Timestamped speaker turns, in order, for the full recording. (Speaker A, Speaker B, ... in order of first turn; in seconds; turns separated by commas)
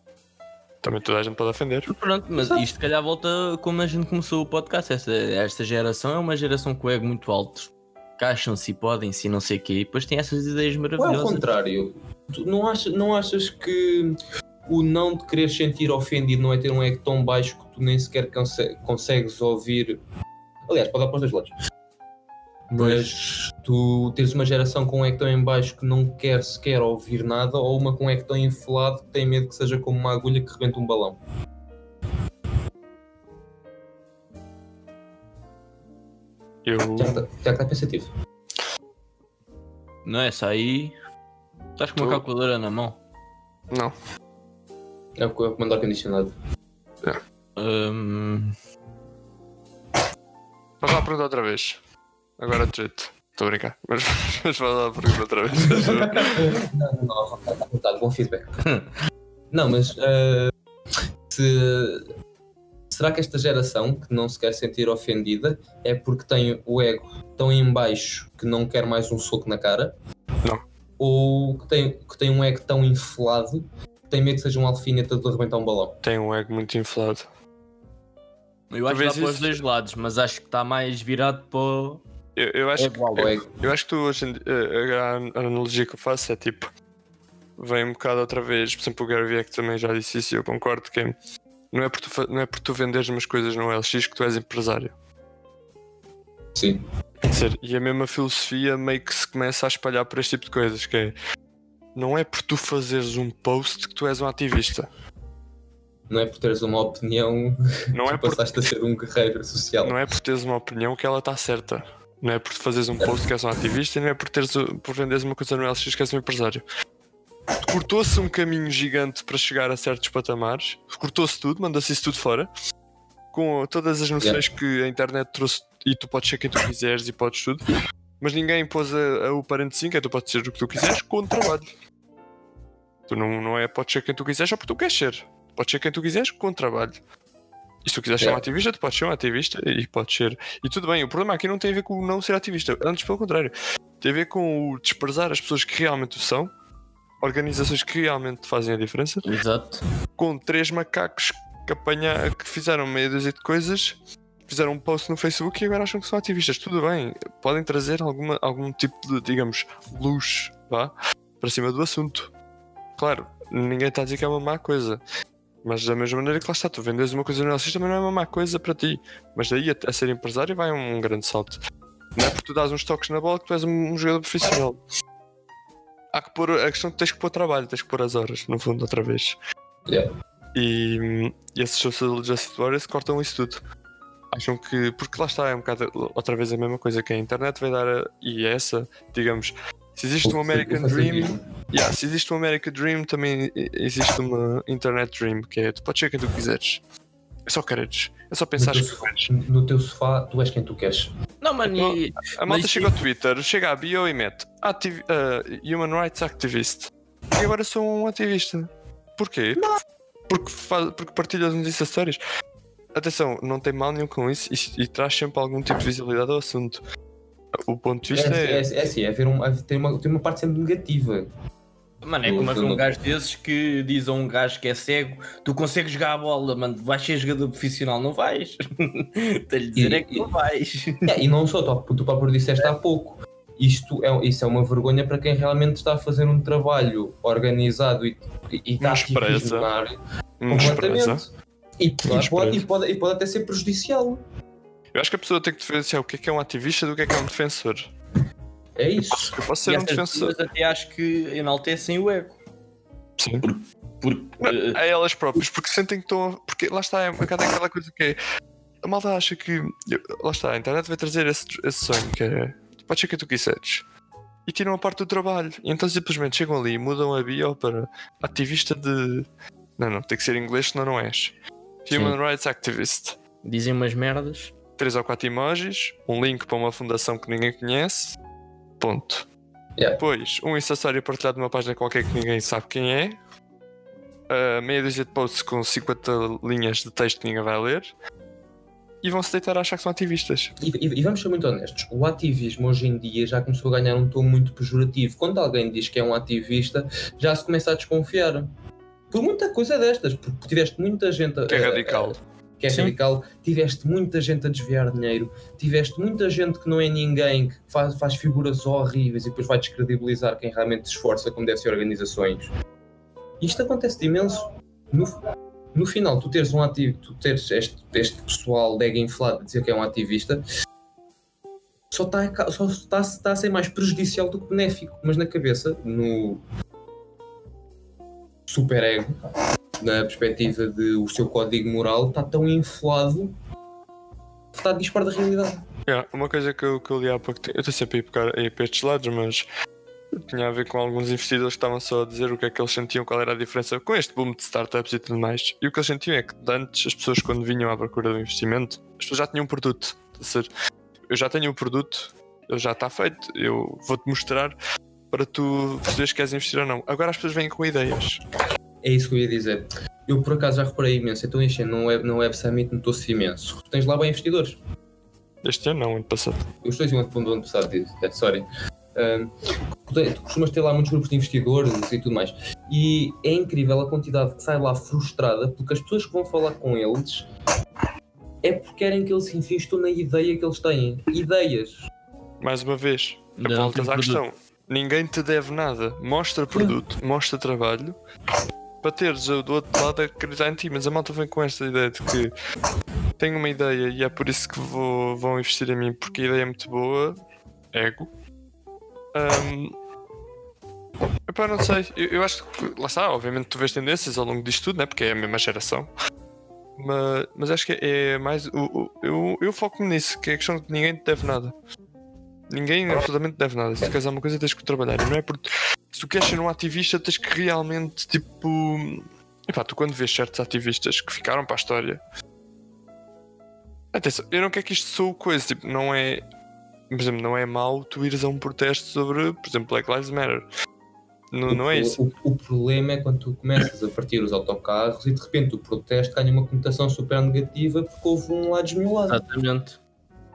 Speaker A: 0.8-1.9, Speaker B: 1.9-11.4, Speaker C: 11.0-20.0, Speaker C: 20.7-21.5, Speaker C: 22.7-31.2, Speaker A: 36.6-37.2, Speaker C: 37.0-38.1, Speaker B: 40.0-40.9, Speaker B: 41.8-43.0, Speaker C: 45.2-46.3, Speaker B: 47.6-48.5, Speaker A: 50.8-51.8, Speaker A: 52.4-56.5, Speaker C: 55.6-58.6, Speaker C: 59.5-60.5, Speaker C: 61.3-62.0, Speaker C: 62.9-69.9, Speaker C: 71.0-75.9, Speaker A: 76.0-77.3, Speaker B: 78.7-82.0, Speaker A: 78.9-79.6, Speaker A: 82.3-86.7, Speaker B: 82.8-83.4, Speaker C: 83.2-83.5, Speaker A: 87.6-91.1, Speaker A: 91.7-94.9, Speaker C: 96.5-96.8, Speaker A: 97.3-101.1, Speaker A: 101.9-104.9, Speaker C: 106.1-110.0, Speaker A: 107.9-108.5, Speaker A: 109.8-116.6, Speaker A: 117.6-122.5, Speaker A: 123.3-127.6, Speaker A: 128.2-131.7, Speaker A: 133.1-137.0, Speaker A: 137.8-146.5, Speaker A: 147.2-149.2, Speaker B: 149.2-149.8, Speaker A: 150.2-162.3, Speaker A: 163.0-165.0, Speaker A: 165.6-171.6, Speaker A: 172.2-174.8, Speaker A: 176.1-179.4, Speaker A: 180.5-183.6, Speaker A: 184.3-196.8, Speaker C: 190.2-191.5, Speaker A: 197.5-199.3, Speaker C: 198.6-201.1, Speaker B: 201.4-202.9, Speaker A: 201.7-212.2, Speaker A: 212.9-216.8, Speaker A: 217.6-218.7, Speaker C: 218.1-221.3, Speaker B: 222.0-231.1, Speaker C: 222.2-222.8, Speaker C: 229.8-230.3, Speaker C: 231.1-239.9, Speaker A: 238.8-239.7, Speaker A: 240.4-241.2, Speaker C: 240.5-241.2, Speaker C: 241.8-244.2, Speaker A: 242.1-242.7, Speaker A: 244.9-247.9, Speaker C: 248.8-249.4, Speaker A: 249.1-250.3, Speaker B: 249.7-252.4, Speaker A: 253.2-253.4, Speaker B: 253.4-254.8, Speaker A: 254.4-258.2, Speaker A: 258.8-263.8, Speaker A: 264.4-269.3, Speaker A: 269.8-271.3, Speaker A: 271.8-273.2, Speaker B: 271.9-272.1, Speaker B: 273.4-274.5, Speaker A: 274.8-278.2, Speaker A: 278.8-279.3, Speaker A: 280.0-283.2, Speaker A: 284.3-287.9, Speaker A: 289.0-290.5, Speaker C: 290.6-298.5, Speaker C: 299.1-312.5, Speaker A: 301.5-302.2, Speaker B: 302.7-302.9, Speaker C: 313.4-315.2, Speaker C: 315.7-320.4, Speaker C: 321.9-326.4, Speaker C: 328.5-329.2, Speaker C: 329.8-333.3, Speaker C: 334.5-335.6, Speaker A: 335.9-339.4, Speaker A: 340.1-350.5, Speaker A: 351.1-354.6, Speaker A: 355.1-358.2, Speaker C: 358.8-364.6, Speaker A: 365.4-366.4, Speaker C: 366.6-369.3, Speaker C: 369.9-377.3, Speaker C: 378.4-381.8, Speaker A: 382.4-387.9, Speaker B: 383.4-384.2, Speaker A: 388.8-392.3, Speaker A: 393.2-397.2, Speaker A: 397.7-398.1, Speaker A: 399.1-399.7, Speaker A: 401.3-405.9, Speaker A: 406.8-411.5, Speaker A: 412.5-422.0, Speaker A: 423.9-426.2, Speaker A: 426.9-430.4, Speaker A: 431.3-432.0, Speaker C: 431.5-439.2, Speaker B: 439.1-439.8